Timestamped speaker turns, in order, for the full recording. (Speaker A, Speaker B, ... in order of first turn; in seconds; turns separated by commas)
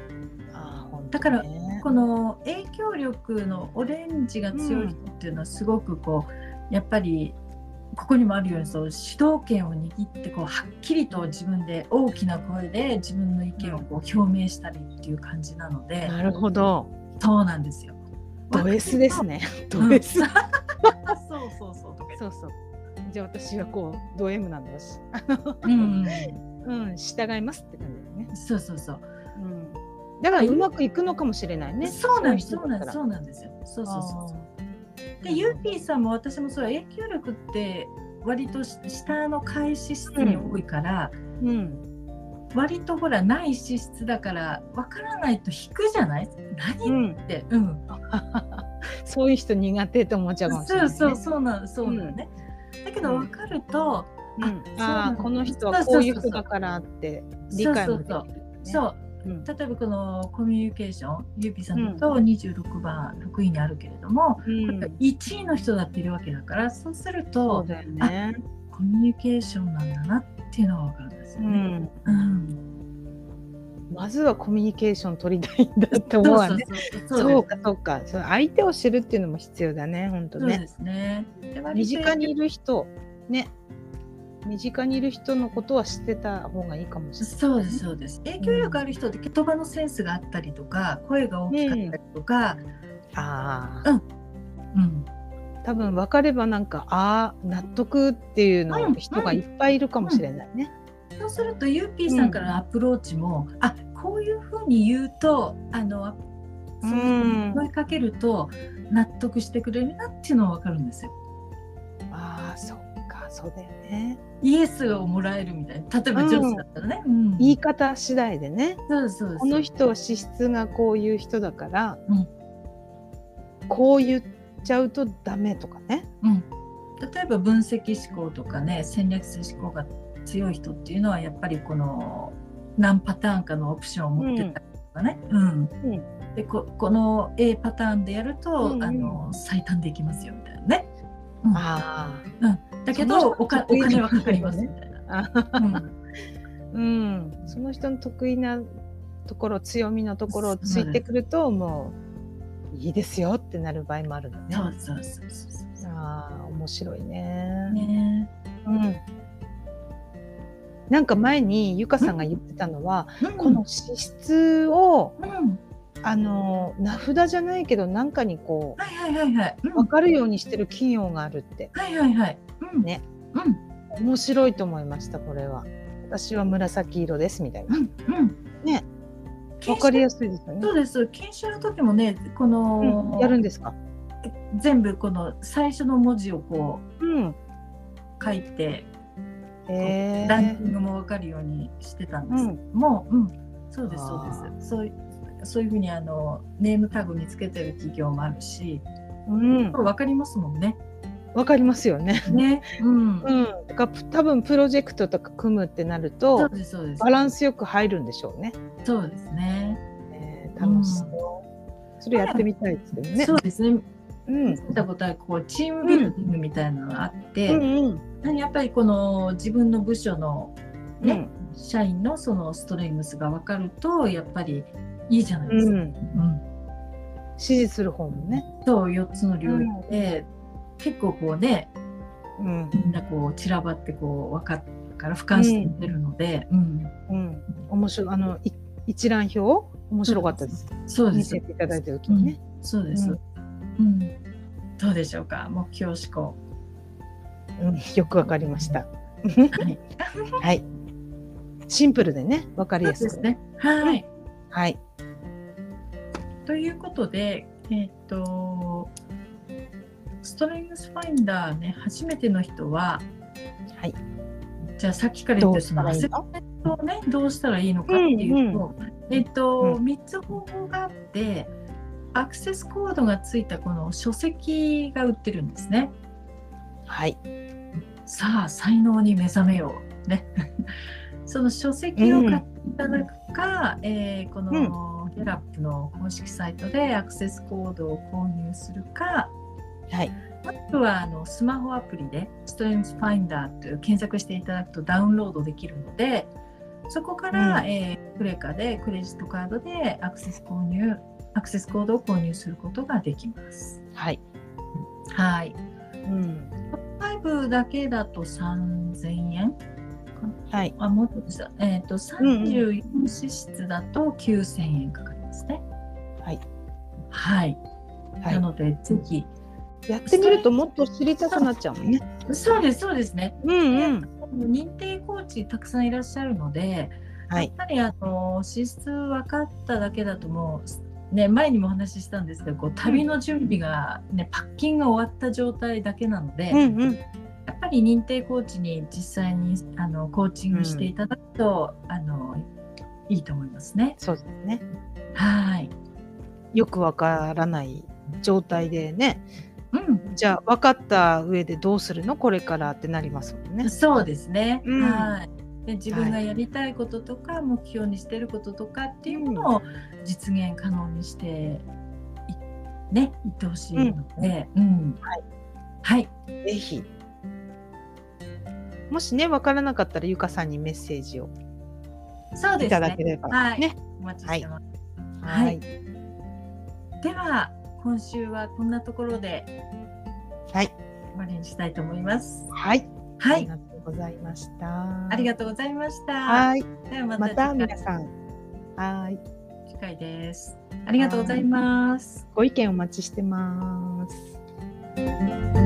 Speaker A: 0.5-1.8, Speaker B: 1.1-7.4, Speaker A: 4.5-4.9, Speaker B: 7.9-16.2, Speaker A: 13.6-13.8, Speaker A: 16.0-16.9, Speaker B: 17.2-18.0, Speaker B: 18.5-22.2, Speaker A: 18.5-20.3, Speaker A: 22.1-28.3, Speaker B: 25.6-26.4, Speaker B: 28.3-29.1, Speaker A: 29.3-33.0, Speaker B: 30.3-30.7, Speaker B: 31.8-34.3, Speaker A: 33.8-34.5, Speaker B: 35.2-41.1, Speaker A: 35.2-35.7, Speaker A: 40.1-40.5, Speaker A: 41.4-41.8, Speaker B: 42.5-47.8, Speaker A: 46.8-47.2, Speaker A: 47.9-51.2, Speaker B: 50.5-52.3, Speaker A: 51.8-52.1, Speaker B: 52.8-56.4, Speaker A: 53.0-53.3, Speaker A: 54.4-59.5, Speaker B: 57.5-68.1, Speaker A: 61.8-62.0, Speaker A: 64.4-65.0, Speaker A: 67.4-68.4, Speaker B: 68.7-72.6, Speaker A: 71.4-71.9, Speaker A: 73.9-80.6, Speaker B: 76.2-77.5, Speaker B: 80.4-82.2, Speaker A: 81.7-83.5, Speaker A: 84.4-87.8, Speaker B: 87.2-92.6, Speaker A: 88.4-88.8, Speaker A: 91.5-92.0, Speaker A: 93.1-93.8, Speaker B: 94.7-95.0, Speaker A: 95.6-100.7, Speaker B: 98.7-99.4, Speaker B: 101.2-106.2, Speaker A: 102.1-102.4, Speaker B: 106.8-111.1, Speaker A: 106.8-107.6, Speaker A: 112.1-114.2, Speaker B: 114.4-117.6, Speaker A: 116.1-116.6, Speaker A: 117.4-118.8, Speaker B: 118.9-119.7, Speaker A: 119.4-122.0, Speaker A: 123.7-126.1, Speaker B: 127.0-135.7, Speaker A: 134.2-134.6, Speaker B: 136.3-140.9, Speaker A: 138.6-139.2, Speaker A: 141.5-142.3, Speaker B: 142.4-145.0, Speaker A: 142.9-145.9, Speaker B: 145.6-145.9, Speaker A: 146.7-148.7, Speaker A: 149.2-151.9, Speaker B: 150.3-151.0, Speaker A: 152.7-154.7, Speaker B: 154.5-155.8, Speaker A: 155.8-157.8, Speaker B: 157.7-158.3, Speaker A: 158.6-159.0, Speaker A: 160.9-165.1, Speaker B: 162.0-162.2, Speaker B: 163.2-163.6, Speaker B: 165.2-165.6, Speaker A: 166.0-168.8, Speaker B: 168.8-169.9, Speaker A: 169.7-171.7, Speaker B: 171.7-173.6, Speaker A: 173.9-177.8, Speaker B: 177.7-178.3, Speaker B: 179.6-180.1, Speaker A: 179.7-180.7, Speaker B: 180.6-183.4, Speaker A: 182.8-183.7, Speaker B: 184.2-186.8, Speaker A: 187.0-187.3, Speaker B: 188.2-188.9, Speaker A: 189.7-190.6, Speaker B: 189.8-198.8, Speaker A: 192.3-192.6, Speaker A: 193.9-194.5, Speaker A: 199.3-199.8, Speaker B: 199.7-200.8, Speaker A: 201.3-202.4, Speaker B: 202.3-203.3, Speaker A: 203.2-208.5, Speaker B: 206.3-207.3, Speaker B: 208.8-209.8, Speaker A: 210.1-211.4, Speaker B: 210.6-211.2, Speaker A: 212.0-213.4, Speaker B: 212.1-212.4, Speaker B: 213.1-213.9, Speaker A: 214.3-214.6, Speaker B: 214.5-217.6, Speaker A: 215.8-216.1, Speaker A: 217.5-218.0, Speaker B: 218.2-226.4, Speaker A: 221.0-221.3, Speaker A: 225.5-226.0, Speaker A: 227.4-228.4, Speaker B: 228.6-231.7, Speaker A: 229.4-229.9, Speaker A: 232.4-232.8, Speaker B: 232.7-236.9, Speaker A: 235.3-235.8, Speaker A: 237.1-242.4, Speaker B: 240.1-241.4, Speaker B: 242.1-243.2, Speaker B: 243.8-244.1, Speaker B: 244.8-246.4, Speaker A: 247.6-249.7, Speaker B: 249.5-250.4, Speaker A: 250.4-250.6, Speaker A: 251.7-253.2, Speaker B: 252.8-254.1, Speaker A: 254.5-254.8, Speaker B: 256.4-258.9, Speaker B: 260.2-263.0, Speaker B: 264.8-271.5, Speaker A: 265.4-266.2, Speaker A: 267.9-268.6, Speaker B: 272.1-275.9, Speaker A: 276.9-277.2, Speaker B: 278.1-280.3, Speaker B: 281.2-289.3, Speaker A: 282.0-282.4, Speaker B: 290.4-296.3, Speaker B: 296.9-303.8, Speaker A: 297.3-297.7, Speaker A: 303.9-304.2, Speaker B: 305.1-305.6, Speaker A: 306.1-306.5, Speaker B: 306.7-309.5, Speaker B: 310.2-315.6, Speaker A: 312.2-312.6, Speaker B: 317.1-317.6, Speaker B: 318.3-319.3, Speaker A: 319.9-322.0, Speaker B: 320.1-320.5, Speaker B: 322.2-336.6, Speaker A: 323.4-324.1, Speaker A: 336.5-337.0, Speaker B: 337.5-342.5, Speaker A: 340.5-340.9, Speaker B: 343.1-344.0, Speaker A: 344.0-344.6, Speaker B: 345.1-345.7, Speaker A: 346.5-349.2, Speaker B: 349.7-350.0, Speaker A: 350.0-353.8, Speaker B: 353.6-361.6, Speaker A: 354.6-355.1, Speaker A: 355.9-356.2, Speaker A: 359.1-359.5, Speaker B: 362.9-365.0, Speaker B: 365.8-366.1, Speaker A: 366.4-366.9, Speaker A: 368.9-371.3, Speaker B: 372.4-374.6, Speaker A: 372.6-374.4, Speaker A: 375.2-375.6, Speaker B: 375.2-375.6, Speaker B: 377.0-379.5, Speaker B: 381.1-382.5, Speaker A: 382.5-385.3, Speaker B: 383.2-383.5, Speaker B: 385.1-387.7, Speaker A: 386.2-386.6, Speaker A: 387.2-388.1, Speaker A: 388.8-389.2, Speaker B: 389.7-392.2, Speaker A: 391.0-391.4, Speaker A: 392.3-394.3